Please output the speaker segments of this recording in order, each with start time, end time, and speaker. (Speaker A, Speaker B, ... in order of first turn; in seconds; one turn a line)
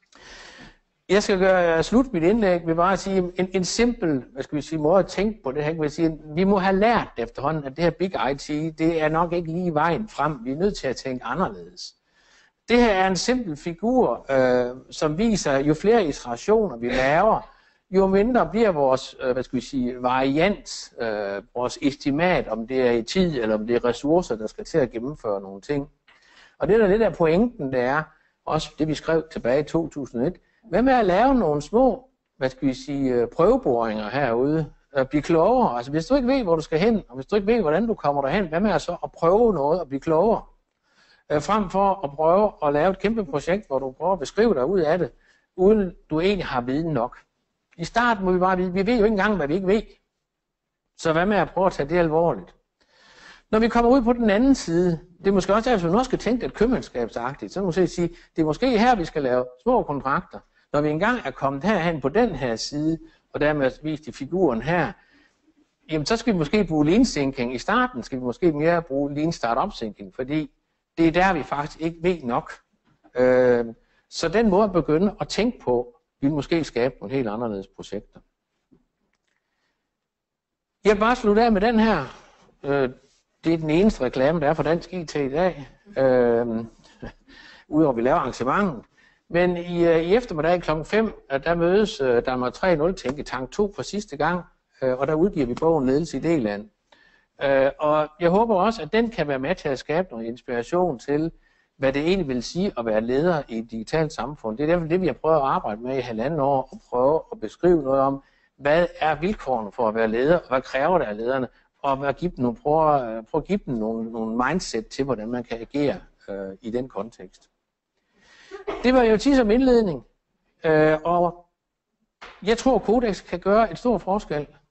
Speaker A: 1.1-11.9
Speaker A: 12.7-25.9
Speaker A: 26.6-40.5
Speaker A: 41.3-47.2
Speaker A: 47.8-50.0
Speaker A: 51.0-52.5
Speaker A: 53.5-65.0
Speaker A: 65.9-72.6
Speaker A: 73.1-78.2
Speaker A: 80.8-82.1
Speaker A: 82.6-87.1
Speaker A: 87.7-96.7
Speaker A: 97.4-117.5
Speaker A: 118.7-120.0
Speaker A: 120.6-121.5
Speaker A: 122.4-124.5